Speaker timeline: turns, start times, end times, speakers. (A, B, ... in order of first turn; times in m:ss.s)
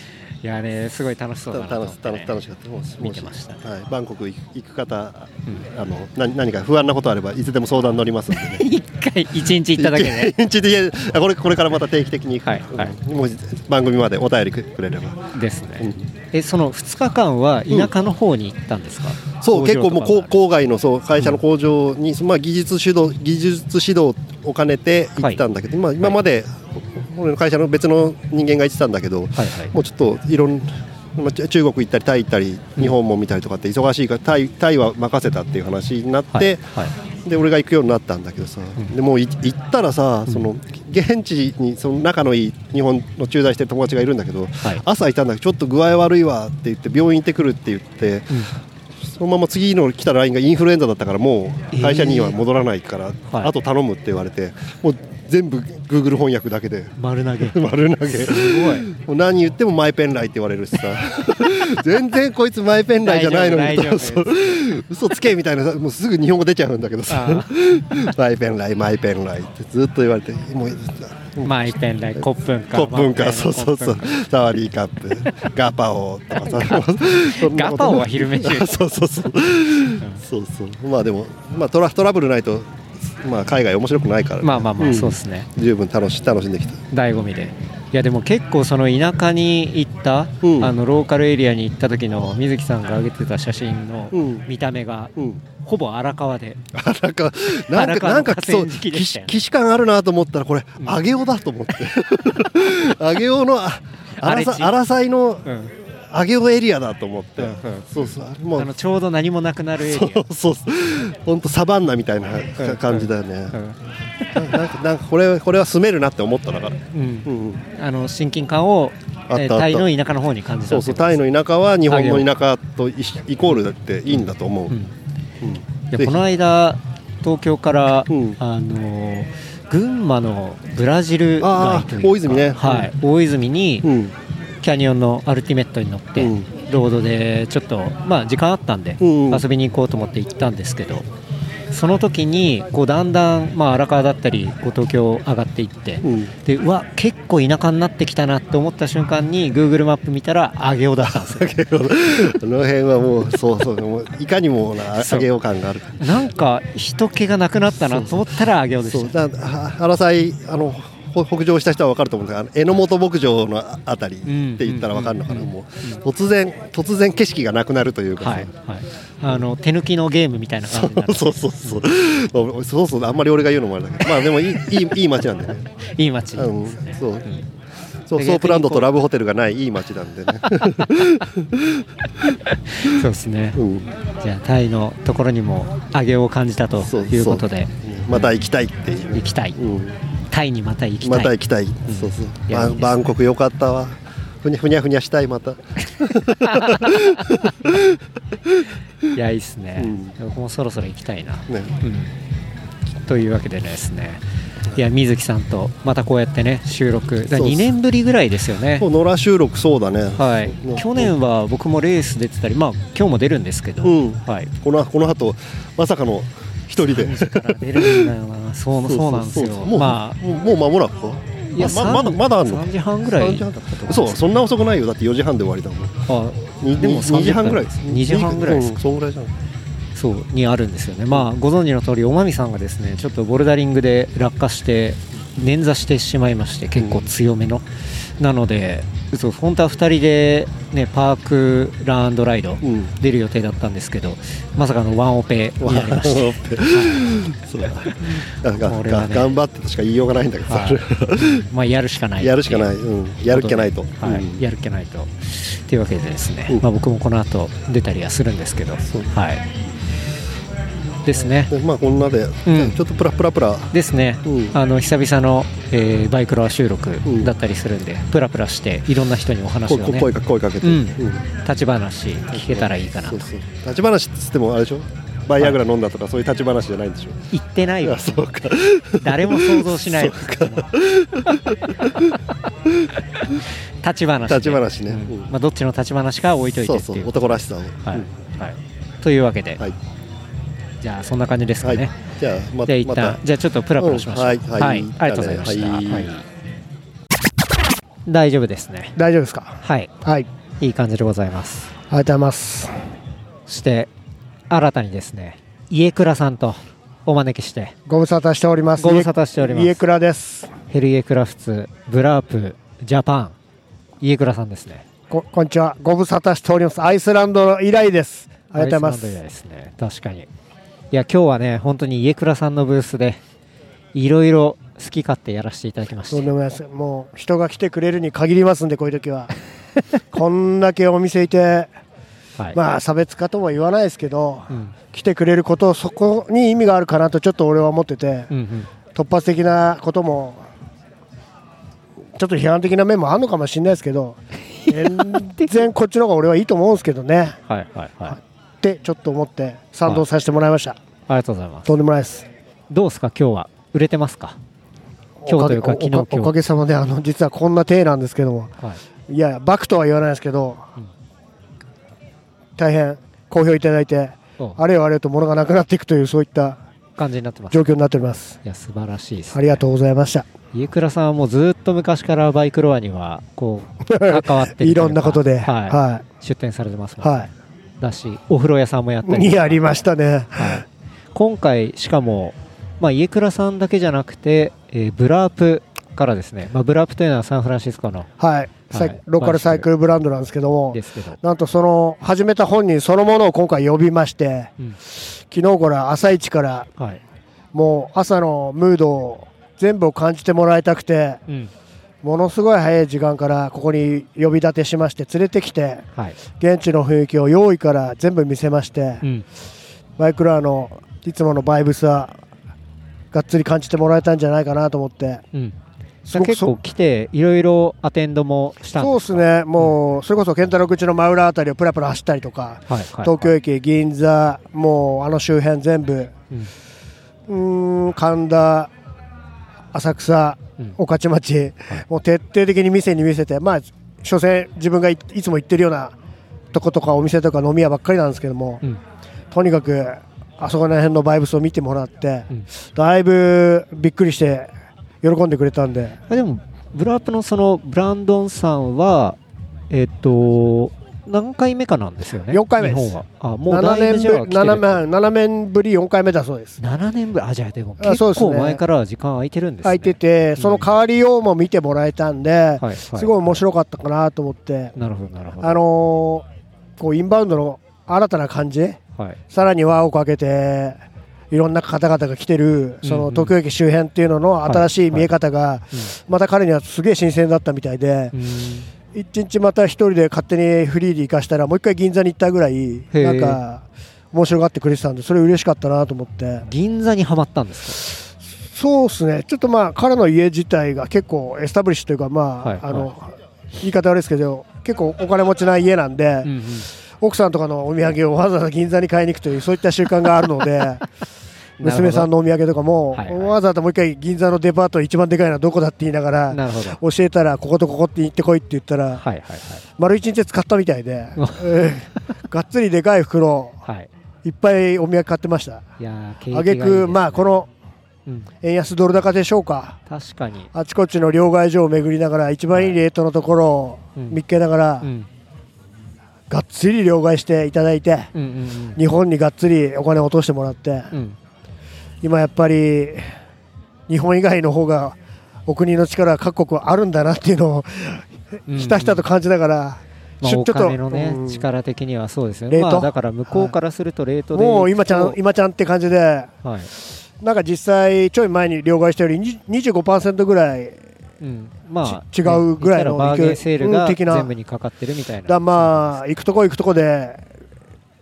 0:00.4-0:02.4 A
0:01.5-0:08.6 B
0:03.0-0:03.6 A
0:08.3-0:10.3 A
0:09.8-0:16.1 B
0:12.4-0:13.0 A
0:15.3-0:20.3 A
0:19.4-0:48.4 B
0:29.4-0:29.7 A
0:36.3-0:36.9 A
0:49.0-1:26.8 B
0:51.7-0:52.4 A
0:57.0-0:58.9 A
1:03.0-1:04.6 A
1:07.1-1:07.5 A
1:11.4-1:14.2 A
1:16.4-1:18.7 A
1:24.4-1:25.5 A
1:26.9-1:36.6 A
1:30.4-1:30.7 B
1:34.1-1:34.5 B
1:35.2-1:35.4 B
1:36.7-1:45.5 B
1:37.7-1:39.4 A
1:44.2-1:44.7 A
1:45.5-1:45.7 A
1:46.1-1:48.7 B
1:47.4-1:50.2 A
1:49.8-1:53.6 B
1:52.6-1:53.8 A
1:54.3-1:57.6 B
1:56.9-2:01.2 A
1:59.3-1:59.9 B
2:00.7-2:04.8 B
2:01.9-2:02.3 A
2:04.1-2:04.9 A
2:05.4-2:06.2 B
2:05.9-2:13.9 A
2:08.1-2:08.4 B
2:11.4-2:12.9 B
2:13.8-2:14.1 B
2:14.6-2:21.1 A
2:16.2-2:16.5 B
2:19.0-2:19.5 B
2:21.7-2:31.5 A
2:26.0-2:26.3 B
2:31.0-2:36.1 B
2:35.0-2:35.3 A
2:36.0-2:39.2 A
2:37.8-2:38.3 B
2:38.8-2:48.5 B
2:44.3-2:46.0 A
2:48.2-2:51.8 A
2:50.7-2:55.6 B
2:56.0-2:57.4 A
2:56.4-2:57.3 B
2:58.1-3:01.8 B
2:58.2-2:59.0 A
3:02.5-3:03.6 A
3:03.6-3:03.9 B
3:04.2-3:08.3 A
3:06.8-3:10.0 B
3:09.1-3:09.6 A
3:10.3-3:13.0 A
3:11.0-3:18.0 B
3:16.4-3:17.3 A
3:19.1-3:22.1 A
3:19.8-3:20.2 B
3:21.5-3:21.8 B
3:23.1-3:24.2 A
3:24.7-3:28.9 A
3:27.3-3:27.7 B
3:28.8-3:31.1 B
3:30.2-3:34.5 A
3:33.8-3:38.1 B
3:36.8-3:40.2 A
3:38.8-3:46.0 B
3:41.5-3:44.2 A
3:46.1-3:48.8 A
3:46.6-3:49.3 B
3:50.0-3:57.6 A
3:56.8-3:57.1 B
3:58.2-4:07.2 A
4:02.6-4:02.9 B
4:05.6-4:11.5 B
4:08.0-4:09.3 A
4:10.5-4:12.7 A
4:12.2-4:14.4 B
4:13.3-4:19.4 A
4:18.8-4:19.1 B
4:21.1-4:21.5 A
4:21.5-4:23.7 B
4:22.5-4:22.8 A
4:23.7-4:30.1 A
4:24.2-4:24.6 B
4:27.0-4:27.3 B
4:29.7-4:31.2 B
4:30.6-4:33.3 A
4:32.3-4:37.3 B
4:37.3-4:38.3 A
4:37.8-4:42.1 B
4:39.0-4:40.7 A
4:43.8-4:49.6 A
4:44.3-4:45.3 B
4:46.6-4:48.1 B
4:50.8-4:52.0 A
4:51.6-4:53.2 B
4:52.6-4:56.2 A
4:53.8-4:56.1 B
4:58.1-4:59.0 A
4:59.0-5:00.3 C
4:59.6-4:59.9 A
5:00.6-5:01.7 A
5:01.9-5:02.7 C
5:03.5-5:03.9 A
5:04.5-5:07.8 A
5:07.9-5:10.5 C
5:08.8-5:09.8 A
5:10.7-5:13.4 A
5:14.0-5:14.8 A
5:15.1-5:19.2 C
5:18.6-5:20.3 A
5:20.9-5:23.2 A
5:23.9-5:26.3 A
5:26.1-5:29.3 C
5:30.1-5:31.7 C
5:32.5-5:38.3 C
5:34.5-5:34.8 A
5:38.3-5:38.7 A
5:38.9-5:40.4 C
5:42.2-5:47.4 C
5:44.6-5:45.6 A
5:47.5-5:48.2 A
5:48.1-5:50.8 C
5:51.1-5:51.7 A
5:51.7-5:52.3 C
5:52.7-5:54.4 A
5:55.2-5:58.5 C
5:55.3-5:56.3 A
5:59.1-6:00.7 C
6:02.6-6:06.6 C
6:07.0-6:07.8 A
6:07.5-6:08.4 C
6:08.4-6:09.6 A
6:09.3-6:10.3 C
6:10.5-6:17.3 A
6:13.9-6:16.0 C
6:17.0-6:17.3 C
6:17.8-6:19.6 A
6:19.1-6:20.6 C
6:20.4-6:28.1 A
6:28.2-6:34.5 C
6:28.7-6:29.7 A
6:30.7-6:31.2 A
6:35.3-6:36.7 C
6:37.5-6:41.2 C
6:42.0-6:45.9 C
6:46.4-6:49.0 C
6:50.0-6:52.2 C
6:53.1-6:55.2 C
6:56.1-6:56.6 C
6:56.1-6:59.7 A
6:58.8-7:06.1 C
7:02.7-7:03.3 A
7:07.3-7:08.7 C
7:09.7-7:16.0 C
7:16.5-7:18.6 C
7:19.3-7:24.5 C
7:25.0-7:26.0 C
7:26.1-7:29.2 A
7:29.7-7:34.8 A
7:32.3-7:33.0 C
7:33.5-7:36.6 C
7:36.6-7:40.7 A
7:37.8-7:38.6 C
7:39.6-7:44.7 C
7:42.6-7:43.4 A
7:44.8-7:45.6 A
7:45.4-7:46.3 C
7:46.8-7:48.8 C
7:49.3-7:50.8 C
7:51.3-7:58.1 C
7:52.8-7:53.4 A
7:54.5-7:55.1 A
7:58.1-7:58.7 A
7:58.9-8:06.5 C
8:02.9-8:03.4 A
8:06.5-8:07.8 A
8:08.5-8:16.4 C
8:12.4-8:12.9 A
8:16.2-8:16.7 A
8:17.0-8:20.8 C
8:21.6-8:22.1 A
8:21.6-8:29.0 C
8:22.9-8:23.4 A
8:26.3-8:26.8 A
8:29.0-8:29.6 A
8:29.8-8:33.6 C
8:33.6-8:33.9 A
8:34.2-8:35.7 C
8:35.8-8:37.4 A
8:36.3-8:37.5 C
8:38.4-8:39.8 C
8:39.9-8:40.5 A
8:40.5-8:44.9 C
8:42.5-8:42.8 A
8:44.0-8:44.2 A
8:44.8-8:45.1 A
8:46.3-8:48.1 C
8:48.1-8:48.8 A
8:48.8-8:50.9 C
8:50.9-8:51.2 A
8:52.0-8:53.1 C
8:53.9-9:01.5 C
8:58.5-8:59.0 A
9:00.2-9:05.2 A
9:02.5-9:03.5 C
9:04.3-9:06.4 C
9:06.4-9:06.7 A
9:07.2-9:10.8 C
9:11.2-9:16.0 A
9:11.8-9:14.3 C
9:15.3-9:17.2 C